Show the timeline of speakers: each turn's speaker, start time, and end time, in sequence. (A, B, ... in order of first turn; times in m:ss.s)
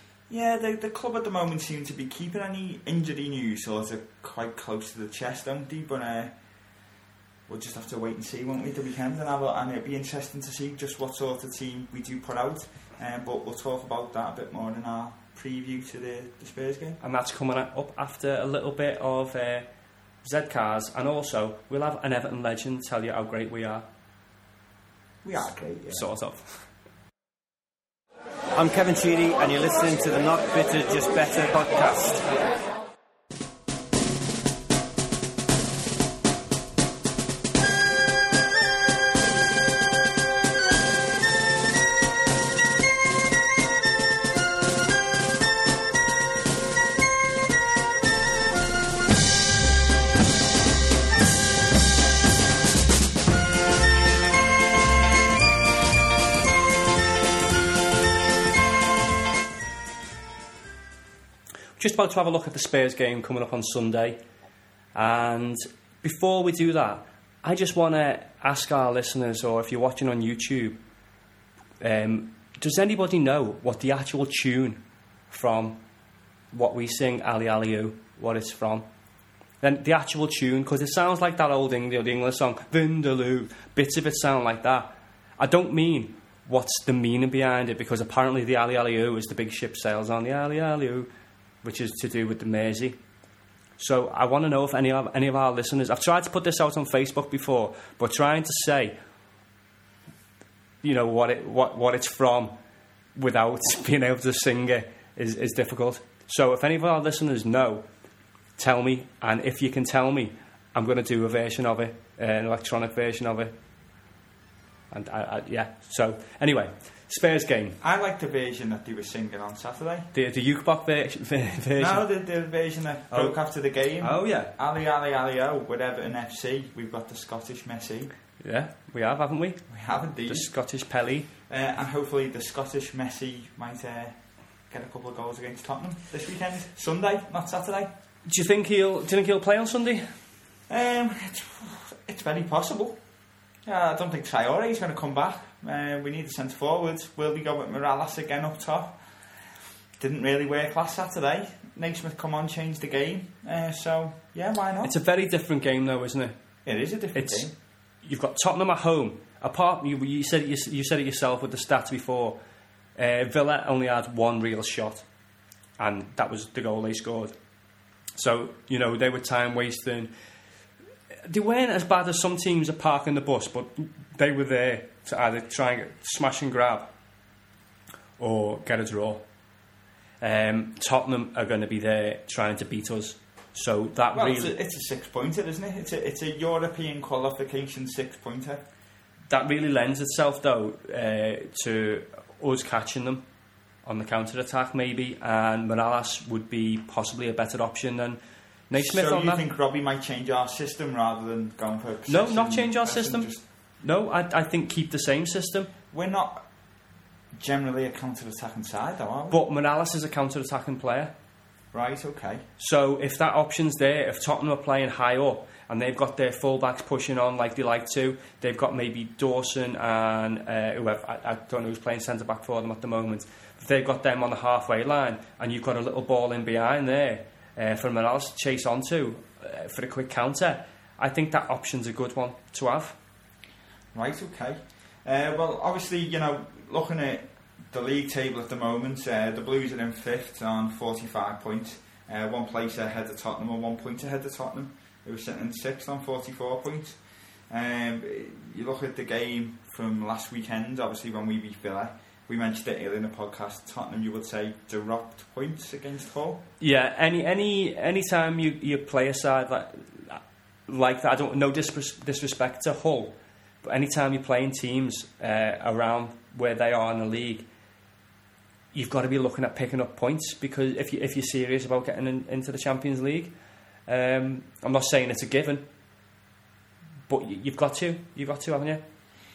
0:00.3-0:06.3 A
0:07.5-0:17.0 A
0:17.0-0:19.7 B
0:20.2-0:23.9 B
0:25.2-0:26.1 A
0:25.9-0:26.7 B
0:28.6-0:32.3 C
1:01.8-1:04.2 B
1:05.0-1:10.8 B
1:11.8-1:15.8 B
1:16.5-1:18.9 B
1:19.6-1:31.1 B
1:31.6-1:33.0 B
1:33.8-1:39.0 B
1:40.8-1:42.6 B
1:43.2-1:47.9 B
1:48.6-1:53.5 B
1:54.9-1:57.8 B
1:57.8-2:00.1 A
2:00.1-2:02.0 B
2:01.8-2:08.1 A
2:04.0-2:04.5 B
2:08.4-2:09.6 B
2:09.7-2:10.5 A
2:10.3-2:11.3 B
2:11.5-2:14.2 A
2:14.7-2:17.9 A
2:18.2-2:20.2 B
2:20.7-2:23.0 A
2:23.6-2:29.0 A
2:30.0-2:34.9 A
2:34.8-2:36.4 B
2:36.6-2:37.5 A
2:37.2-2:37.5 B
2:38.0-2:42.4 B
2:43.0-2:45.0 B
2:45.8-2:47.4 B
2:48.2-2:50.1 B
2:51.3-2:56.9 B
2:58.2-2:59.2 B
3:00.2-3:04.5 B
3:04.1-3:08.6 A
3:09.3-3:13.2 B
3:13.8-3:19.4 B
3:18.7-3:23.4 A
3:22.1-3:23.3 B
3:23.8-3:25.7 B
3:25.9-3:26.4 A
3:27.4-3:29.4 A
3:29.3-3:31.1 B
3:31.7-3:32.4 A
3:32.6-3:53.0 B
3:53.9-4:07.0 A
4:07.5-4:16.4 A
4:16.6-4:27.5 B
4:28.7-4:33.3 B
4:33.9-4:35.6 B
4:37.1-4:38.8 B